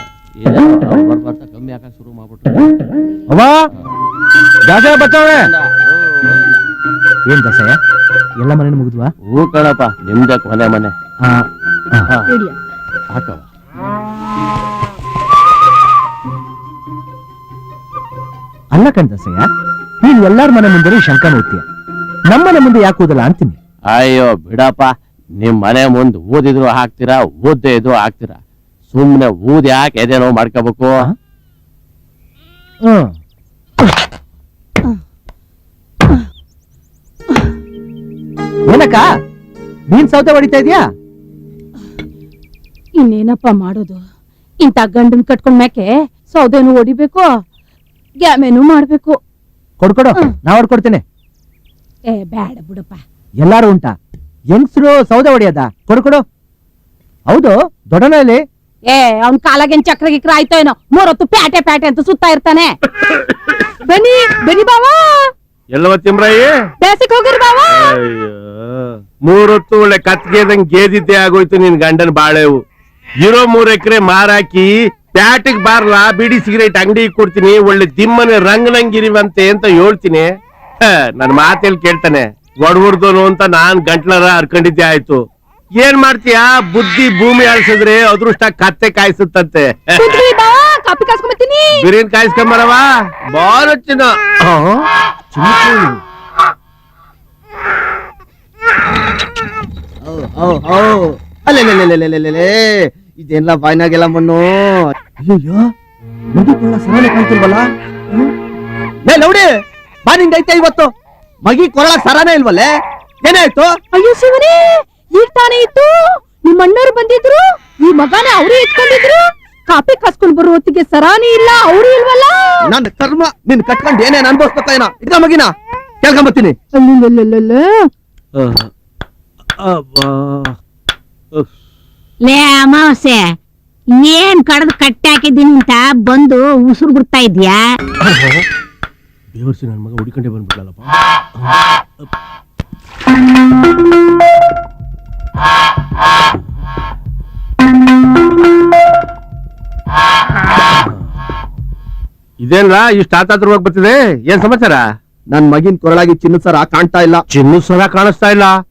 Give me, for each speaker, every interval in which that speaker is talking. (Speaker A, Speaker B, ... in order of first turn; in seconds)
Speaker A: 0.4-2.7, 9.3-10.9, 13.2-13.4, 23.9-24.8, 25.5-28.4, 28.9-30.8
Speaker B: 3.3-3.6, 4.7-5.5, 7.3-7.8, 8.4-9.1, 18.7-19.4, 20.0-21.6, 22.3-23.6, 32.8-33.1, 38.7-39.0, 39.9-40.8, 49.8-51.0, 53.4-53.9, 54.5-56.2, 57.3-58.4, 105.2-105.6
Speaker C: 12.3-12.6, 43.0-44.0, 44.6-47.3, 48.2-49.2, 52.1-53.0, 58.9-62.8, 63.9-65.1, 66.8-67.6, 90.0-91.7, 114.0-122.5, 126.7-127.8
Speaker D: 65.7-66.5, 67.7-72.6, 73.2-80.3, 81.2-85.2, 85.8-90.2, 91.8-94.8, 128.4-128.7, 129.6-130.6, 138.0-138.4, 139.3-140.9, 152.4-154.8, 157.3-158.5
Speaker E: 100.0-104.9, 106.3-107.6, 109.1-109.5, 110.0-110.9, 111.4-112.7, 113.2-113.8, 122.6-126.6, 155.3-157.2
Speaker F: 132.3-133.3, 134.0-137.6